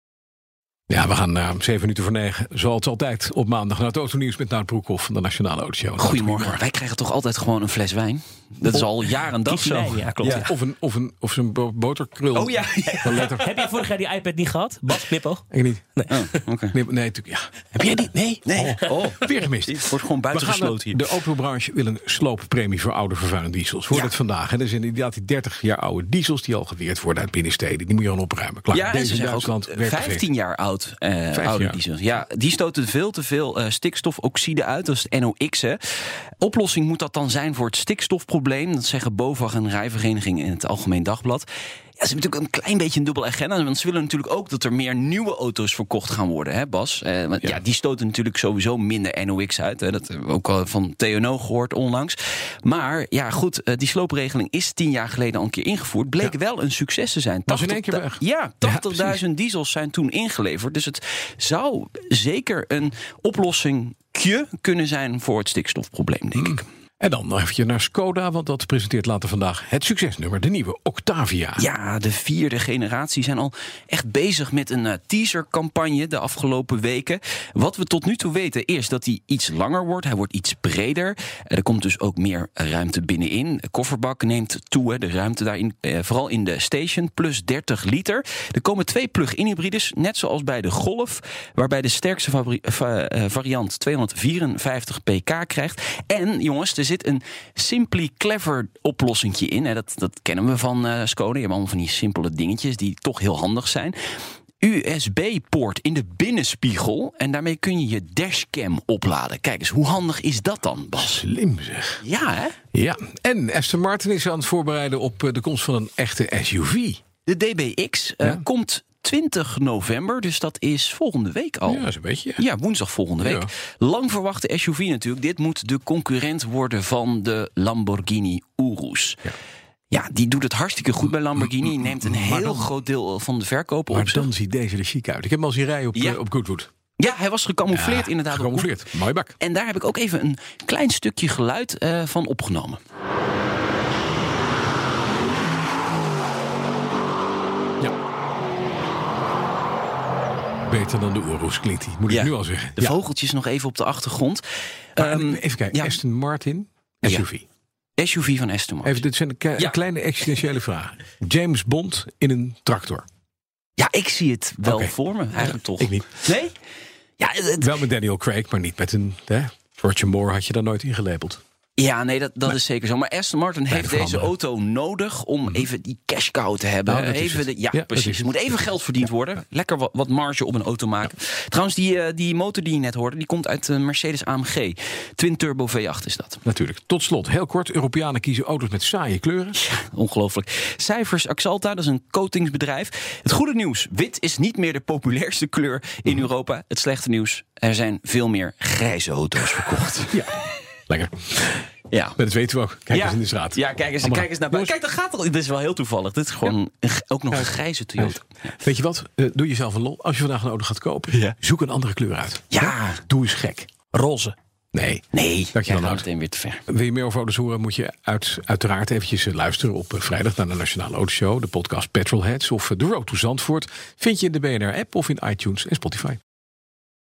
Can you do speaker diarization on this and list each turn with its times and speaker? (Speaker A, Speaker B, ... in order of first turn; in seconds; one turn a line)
Speaker A: 0.9-6.6
Speaker B: 6.0-10.5
Speaker C: 9.4-10.5
Speaker A: 10.2-13.6
Speaker B: 12.3-13.6
Speaker C: 13.0-15.4
Speaker A: 15.5-15.9
Speaker C: 16.0-16.4
Speaker B: 16.1-16.8
Speaker A: 16.7-30.3
Speaker C: 17.8-18.9
Speaker B: 18.4-21.1
Speaker B: 28.7-35.8
Speaker A: 31.3-31.8
Speaker B: 36.4-41.5
Speaker B: 42.0-66.6
Speaker A: 57.5-59.2
Speaker A: 66.3-71.6
Speaker B: 71.6-104.0
Speaker B: 104.6-111.2
Speaker A: 111.0-112.0
Speaker B: 112.0-112.5
Speaker A: 112.7-117.0
Speaker B: 117.3-129.3
Speaker A: 121.7-122.4
Speaker A: 123.2-123.5
Speaker B: 129.9-134.3
Speaker A: 131.4-132.7
Speaker A: 133.9-136.7
Speaker B: 137.0-138.8
Speaker A: 137.7-139.3
Speaker B: 139.4-142.8
Speaker A: 150.6-153.0
Speaker B: 152.1-154.4
Speaker B: 154.9-156.0
Speaker A: 155.0-157.4
Speaker B: 158.0-159.0
Speaker A: 158.8-163.1
Speaker B: 163.8-166.5
Speaker A: 164.6-166.2
Speaker B: 167.2-167.7
Speaker A: 167.6-171.4
Speaker B: 171.8-186.4
Speaker A: 173.7-174.3
Speaker A: 176.9-178.6
Speaker A: 186.4-189.6
Speaker B: 189.6-200.3
Speaker A: 200.9-201.7
Speaker B: 201.9-202.2
Speaker A: 202.2-204.7
Speaker B: 202.9-208.5
Speaker A: 207.3-213.7
Speaker B: 212.5-213.0
Speaker B: 213.9-214.3
Speaker A: 214.7-216.0
Speaker B: 215.1-216.6
Speaker A: 216.7-226.2